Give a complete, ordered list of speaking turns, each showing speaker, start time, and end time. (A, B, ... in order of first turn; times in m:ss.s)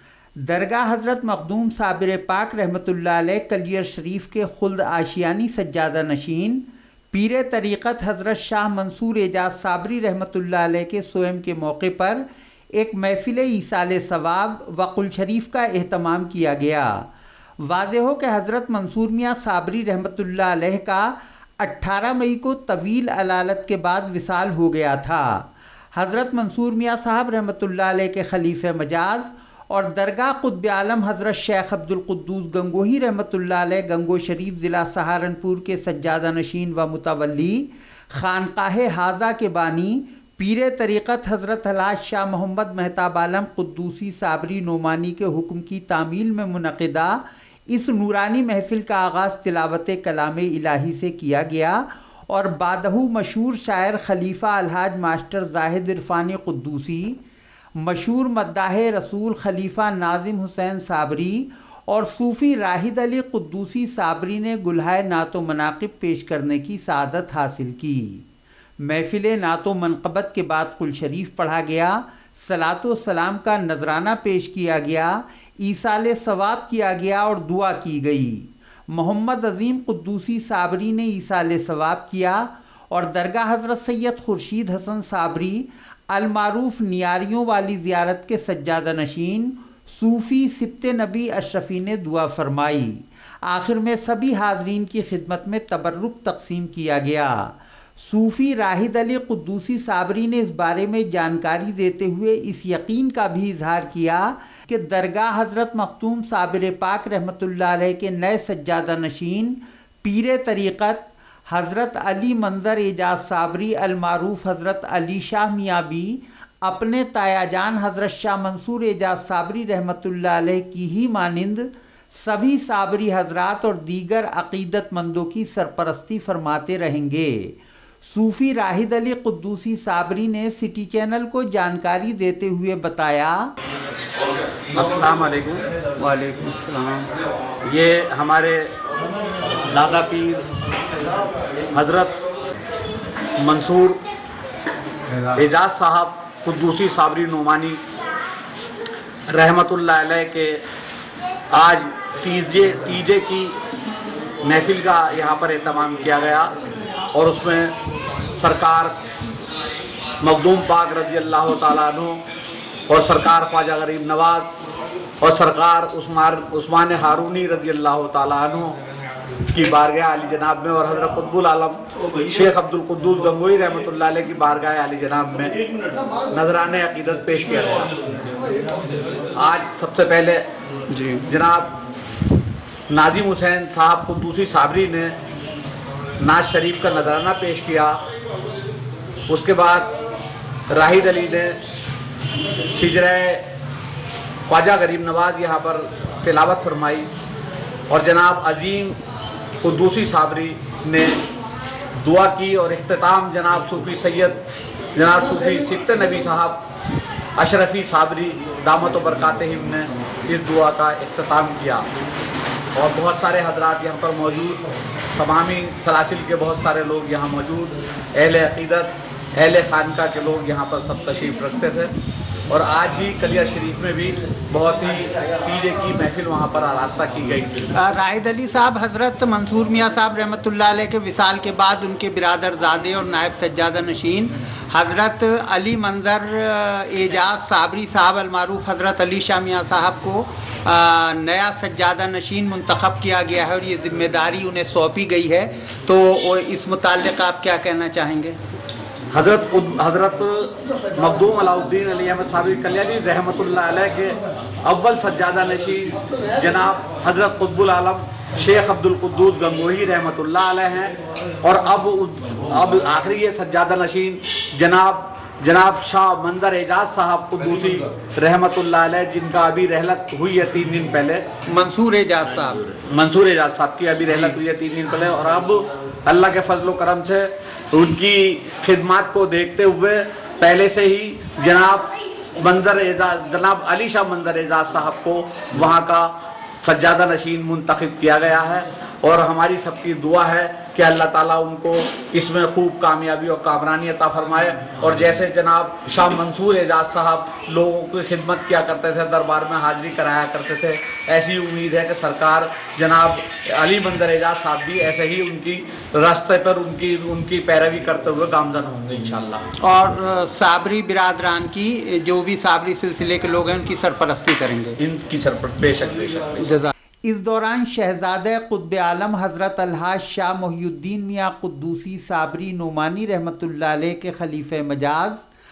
0:00.4-0:17.0 A
0:17.6-0:57.2 A
0:57.8-1:08.2 A
1:08.8-2:13.4 A
2:14.7-2:15.7 B
2:16.0-2:17.1 A
2:17.6-2:18.8 B
2:19.7-2:20.5 B
2:21.7-2:22.2 B
2:23.4-2:24.0 B
2:25.4-2:27.8 B
2:29.3-2:30.6 B
2:31.5-2:33.6 B
2:34.4-2:36.5 B
2:37.1-2:37.8 B
2:38.3-2:39.0 B
2:40.2-2:42.2 B
2:42.9-2:44.5 B
2:45.2-2:48.8 B
2:49.5-2:55.6 B
2:56.2-2:58.0 B
2:59.3-3:00.4 B
3:00.9-3:01.2 A
3:01.2-3:01.7 B
3:02.9-3:05.2 B
3:06.2-3:08.0 B
3:09.3-3:09.9 B
3:10.7-3:11.6 B
3:12.7-3:13.5 B
3:14.5-3:17.1 B
3:17.9-3:19.0 B
3:19.6-3:21.2 B
3:22.0-3:24.4 B
3:25.0-3:26.6 B
3:27.4-3:31.9 B
3:32.8-3:34.6 B
3:35.1-3:41.9 B
3:42.5-3:47.9 B
3:47.8-4:08.4 A
4:09.1-4:31.2 B
4:31.5-4:32.7 A
4:32.7-4:46.1 B
4:46.6-5:09.4 B
5:09.6-5:14.8 A
5:14.8-5:16.6 B
5:16.4-5:25.3 A